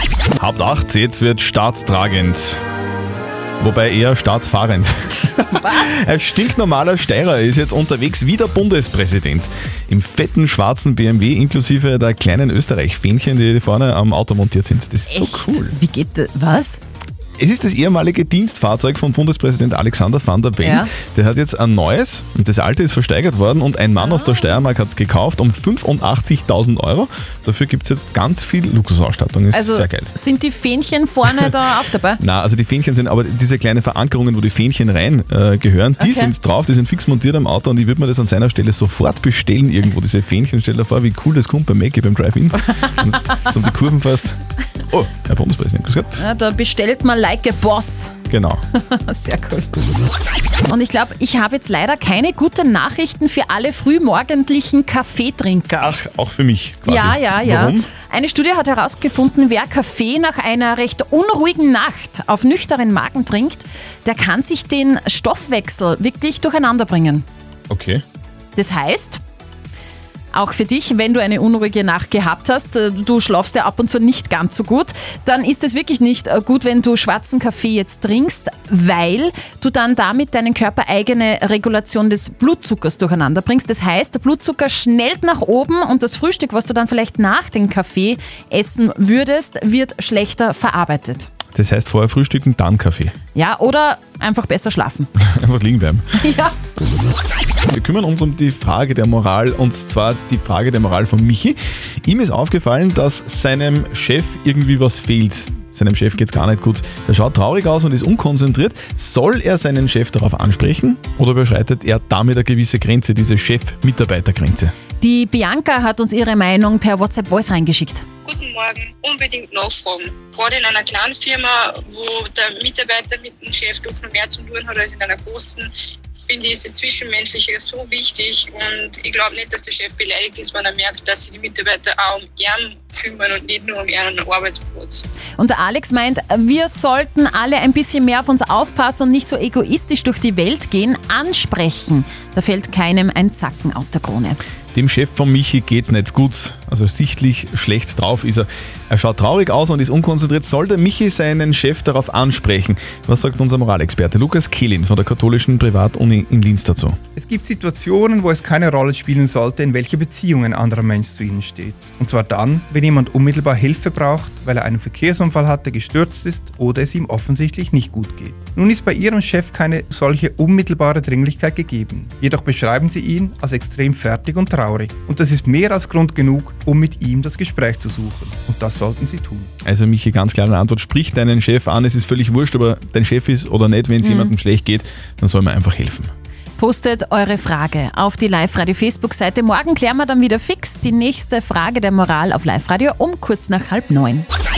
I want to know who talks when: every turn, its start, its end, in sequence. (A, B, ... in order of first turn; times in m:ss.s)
0:00.4-0:02.6 A
0:03.6-0:15.8 A
0:05.5-0:06.1 B
0:15.1-0:16.8 B
0:17.4-0:30.1 A
0:20.6-0:20.9 B
0:24.0-0:24.6 B
0:29.5-0:32.2 B
0:32.2-0:46.2 A
0:36.0-0:36.3 B
0:46.2-0:48.1 B
0:48.3-0:48.6 A
0:48.7-0:49.7 B
0:50.6-0:55.9 B
0:55.8-0:57.9 A
0:56.8-1:07.2 B
1:07.7-1:08.0 A
1:08.6-1:09.2 B
1:10.3-1:31.3 B
1:31.5-1:33.1 A
1:33.3-1:35.1 B
1:35.2-1:36.0 A
1:36.2-1:36.5 B
1:37.7-1:54.7 A
1:55.0-1:58.0 B
1:58.2-2:05.7 C
2:06.2-2:15.0 C
2:15.4-2:24.4 B
2:24.7-2:37.0 A
2:37.2-2:59.5 D
2:59.6-3:06.1 A
3:04.0-3:04.3 B
3:06.6-3:14.3 B